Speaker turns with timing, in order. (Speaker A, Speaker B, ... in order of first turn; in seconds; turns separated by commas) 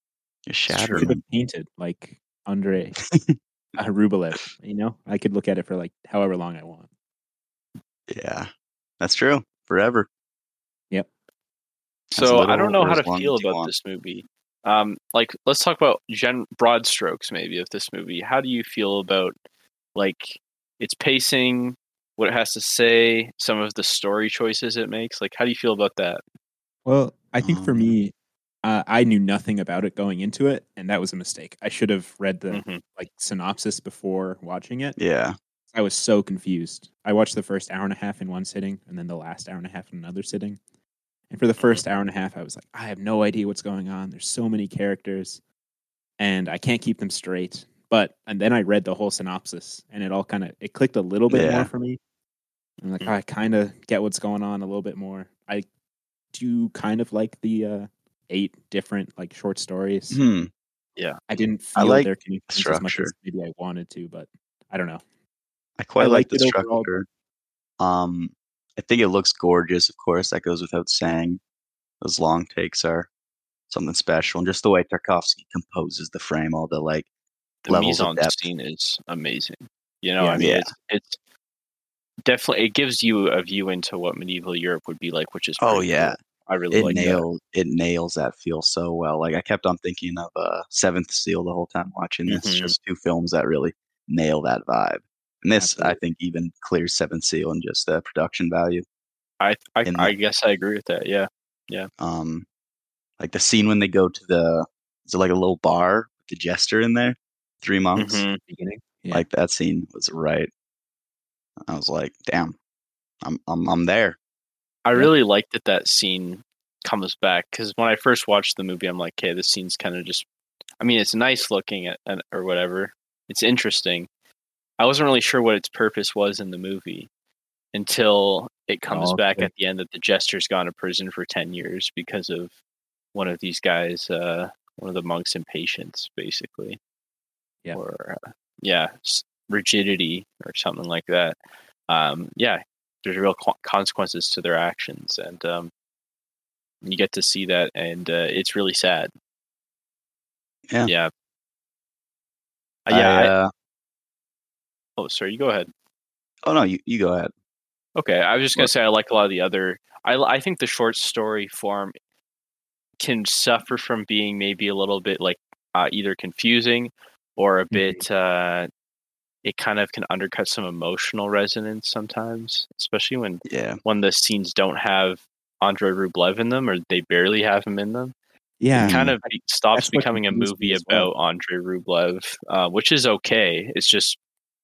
Speaker A: 0.5-1.2, Speaker B: 0.7-3.0, Speaker A: 3.1-3.4, Speaker B: 3.8-6.9, Speaker A: 8.1-8.5, Speaker A: 9.0-10.1, Speaker A: 12.1-13.7, Speaker C: 12.2-19.3, Speaker C: 19.9-26.2, Speaker B: 26.9-28.1, Speaker A: 27.4-27.9, Speaker B: 28.6-35.0, Speaker C: 32.5-32.8, Speaker A: 35.0-35.4, Speaker B: 35.7-40.6, Speaker B: 41.3-45.4, Speaker B: 46.2-52.0, Speaker A: 51.3-51.7, Speaker B: 52.8-55.6, Speaker B: 56.3-60.2, Speaker A: 60.1-60.5, Speaker B: 61.3-65.0, Speaker A: 61.7-63.1, Speaker A: 65.8-67.0, Speaker B: 66.0-67.0, Speaker A: 67.8-71.4, Speaker A: 72.0-73.1, Speaker A: 73.7-77.1, Speaker C: 77.7-81.2, Speaker A: 77.7-78.5, Speaker A: 80.4-80.7, Speaker C: 82.2-87.2, Speaker A: 85.6-86.2, Speaker A: 86.7-98.8, Speaker B: 86.8-87.1, Speaker C: 92.3-92.7, Speaker B: 95.6-96.0, Speaker C: 99.4-101.9, Speaker A: 99.8-100.1, Speaker A: 102.0-102.5, Speaker A: 103.2-108.2, Speaker C: 108.0-108.4, Speaker B: 108.5-109.2, Speaker A: 109.1-110.5, Speaker A: 111.6-112.5, Speaker A: 113.2-114.2, Speaker C: 114.8-120.2, Speaker C: 120.8-124.1, Speaker C: 124.8-127.1, Speaker C: 127.7-132.5, Speaker B: 128.9-129.5, Speaker C: 133.1-136.8, Speaker C: 137.7-141.4, Speaker C: 141.9-145.7, Speaker C: 146.8-149.1, Speaker C: 150.8-151.1, Speaker C: 152.9-153.3, Speaker A: 152.9-153.5, Speaker C: 155.0-155.7, Speaker A: 156.4-157.3, Speaker C: 158.0-161.9, Speaker C: 163.0-168.7, Speaker B: 167.7-168.0, Speaker C: 169.4-178.1, Speaker A: 173.5-173.8, Speaker B: 178.6-181.1, Speaker A: 178.7-179.2, Speaker C: 178.8-184.2